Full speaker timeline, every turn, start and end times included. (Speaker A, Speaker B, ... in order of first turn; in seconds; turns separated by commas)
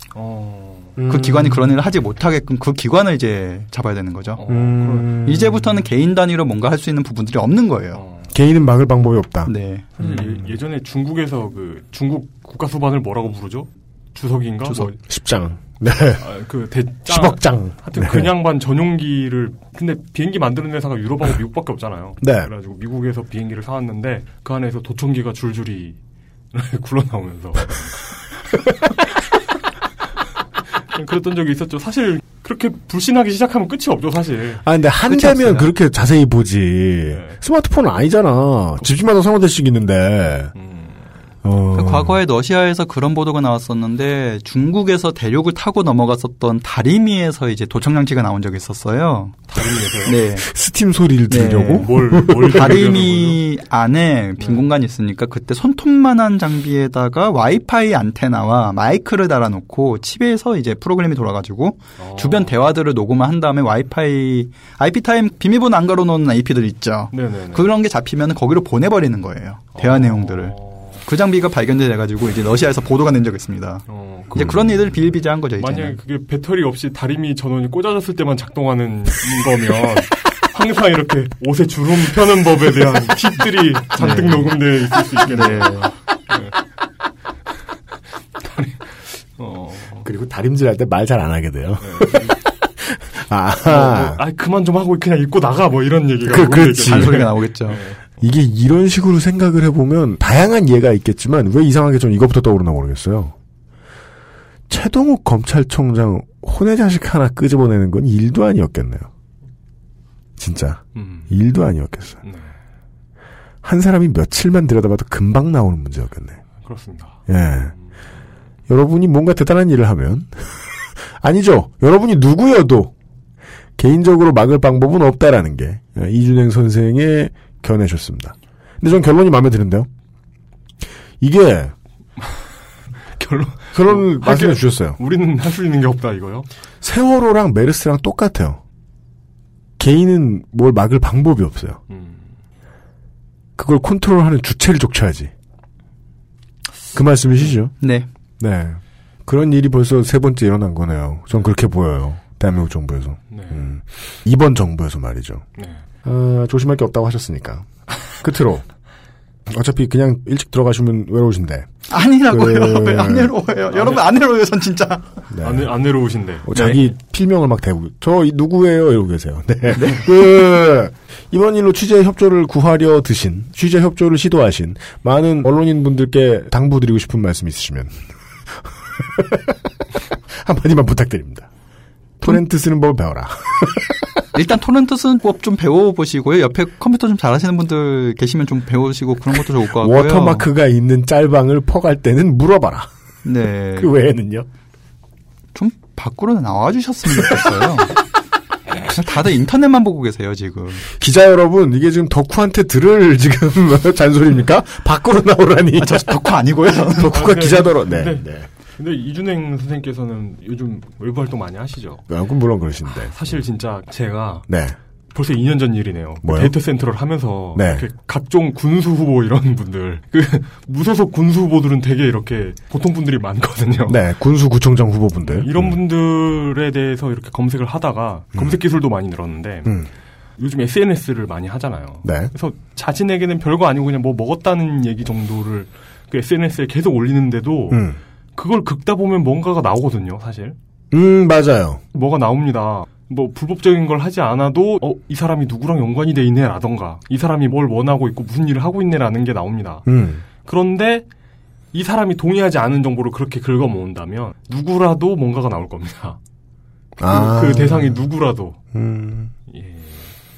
Speaker A: 0.1-1.5, Speaker B: 1.0-1.5, Speaker C: 1.1-4.4, Speaker A: 4.4-5.8, Speaker B: 4.5-5.5, Speaker C: 5.2-8.0, Speaker A: 7.9-8.3, Speaker B: 8.3-10.5, Speaker C: 9.4-9.9, Speaker A: 10.0-14.9, Speaker B: 14.7-16.3, Speaker A: 16.2-26.0, Speaker B: 17.1-18.3, Speaker B: 22.2-22.5, Speaker A: 26.5-28.1, Speaker A: 30.9-34.6, Speaker B: 34.6-40.5, Speaker C: 35.1-35.7, Speaker A: 37.1-37.4, Speaker A: 40.5-41.0, Speaker B: 41.4-42.2, Speaker C: 41.7-49.4, Speaker A: 49.5-50.2, Speaker C: 50.0-50.5, Speaker B: 50.4-53.0, Speaker C: 51.3-51.9, Speaker A: 51.8-53.4, Speaker C: 52.5-76.0, Speaker A: 62.0-62.5, Speaker A: 67.1-67.7, Speaker A: 69.8-71.0, Speaker A: 73.9-74.6, Speaker B: 74.3-74.7, Speaker A: 75.6-86.5, Speaker C: 84.0-84.5, Speaker C: 85.3-85.9, Speaker A: 88.5-90.0, Speaker B: 90.0-94.2, Speaker A: 91.8-92.4, Speaker A: 93.6-98.0, Speaker B: 96.2-97.2, Speaker C: 96.8-97.8, Speaker B: 98.2-103.3, Speaker B: 104.7-109.1, Speaker B: 110.4-112.2, Speaker A: 110.9-111.3, Speaker A: 112.2-112.5, Speaker B: 113.6-116.4, Speaker A: 116.6-117.2, Speaker B: 117.3-117.7, Speaker B: 118.7-122.9, Speaker B: 123.8-129.9, Speaker B: 131.2-131.7, Speaker A: 133.1-136.5, Speaker B: 133.7-135.0, Speaker B: 136.8-138.6, Speaker B: 139.8-141.8, Speaker A: 141.9-142.3, Speaker B: 143.6-145.3, Speaker B: 146.9-147.7, Speaker C: 147.8-148.1, Speaker B: 148.4-155.4, Speaker A: 153.3-153.7, Speaker A: 155.6-155.8, Speaker B: 156.0-158.7, Speaker B: 159.5-161.7, Speaker C: 161.9-165.0, Speaker B: 162.3-163.3, Speaker A: 163.7-164.1, Speaker B: 165.3-165.7, Speaker A: 165.4-166.8, Speaker B: 166.4-178.0, Speaker C: 169.7-170.0, Speaker B: 178.9-179.6, Speaker B: 180.3-181.5, Speaker B: 182.2-184.2, Speaker C: 184.3-190.5, Speaker B: 189.8-192.9, Speaker C: 193.2-193.9, Speaker B: 193.8-194.4, Speaker C: 195.5-197.9, Speaker C: 198.9-200.8, Speaker B: 200.9-206.3, Speaker C: 205.8-207.1, Speaker B: 206.9-208.5, Speaker A: 207.1-212.0, Speaker B: 212.1-213.1, Speaker A: 213.1-214.4, Speaker B: 214.5-214.8, Speaker A: 215.1-224.0, Speaker B: 216.2-216.5, Speaker B: 217.6-217.9, Speaker B: 223.9-225.8, Speaker A: 225.2-229.8, Speaker A: 230.4-237.8, Speaker B: 232.0-232.3, Speaker B: 237.7-238.0, Speaker A: 238.3-240.6, Speaker B: 240.9-241.8, Speaker A: 241.9-249.8, Speaker B: 249.8-250.2, Speaker A: 250.4-251.1, Speaker A: 251.7-256.2, Speaker B: 257.0-258.0, Speaker A: 257.1-258.6, Speaker B: 258.7-259.3, Speaker A: 259.5-260.1